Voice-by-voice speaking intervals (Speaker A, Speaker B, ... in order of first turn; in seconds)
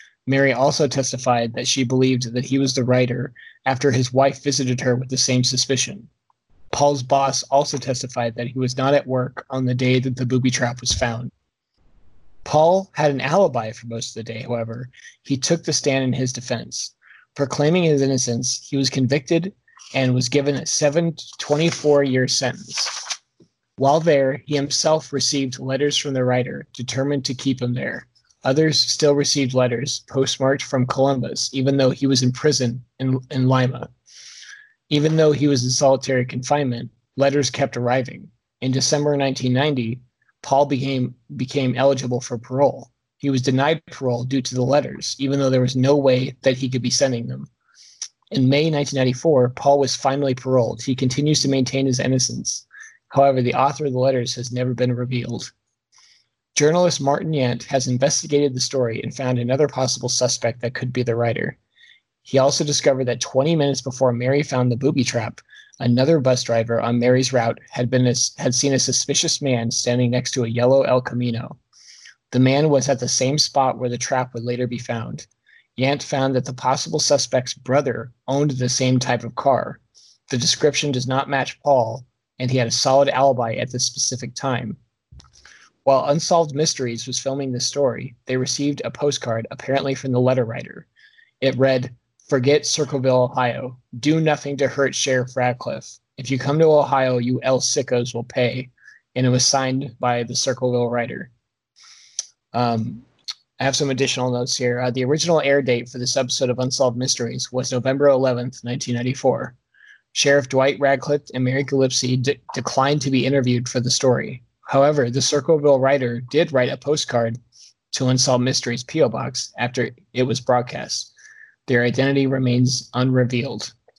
Speaker A: 0.3-6.1, 6.7-11.3, 12.4-23.2, 23.8-33.9, 34.9-47.5, 48.3-55.5, 56.5-61.6, 62.2-71.6, 72.3-75.3, 75.8-84.8, 85.8-90.9, 91.4-101.3, 102.5-103.1, 103.6-109.5, 110.1-117.4, 117.9-121.1, 121.7-123.7